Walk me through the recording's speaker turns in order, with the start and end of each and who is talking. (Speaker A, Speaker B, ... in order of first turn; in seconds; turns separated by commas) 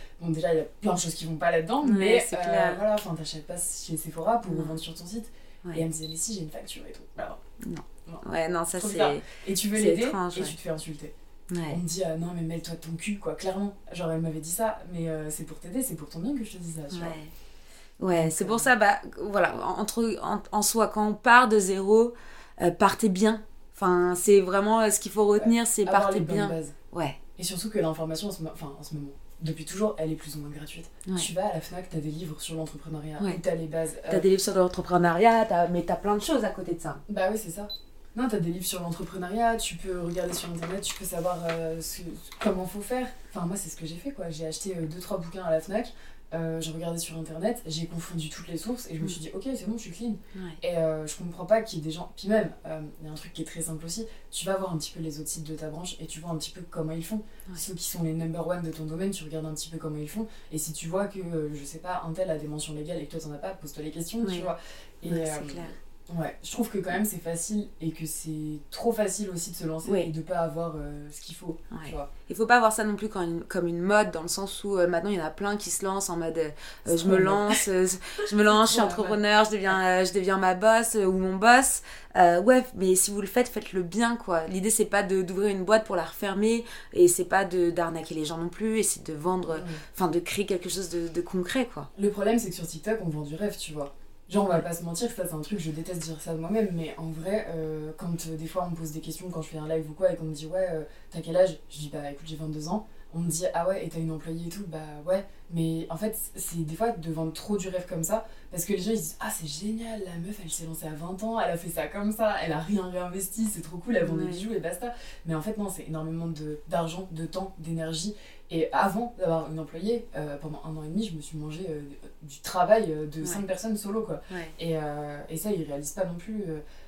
Speaker A: 0.2-7.4, Speaker B: 1.8-2.8, Speaker B: 4.4-4.8, Speaker B: 7.6-9.2, Speaker A: 8.7-11.1, Speaker B: 9.7-10.5, Speaker B: 11.5-11.8, Speaker A: 11.7-17.2, Speaker B: 16.9-17.3, Speaker B: 18.0-27.2, Speaker A: 18.1-18.7, Speaker A: 25.4-26.8, Speaker A: 27.4-34.2, Speaker B: 34.1-37.0, Speaker A: 37.1-72.1, Speaker B: 50.3-50.6, Speaker B: 64.2-64.5, Speaker B: 65.0-65.8, Speaker B: 71.7-91.9, Speaker A: 76.8-77.6, Speaker A: 78.4-79.2, Speaker A: 89.5-89.8, Speaker A: 91.9-126.6, Speaker B: 114.0-114.4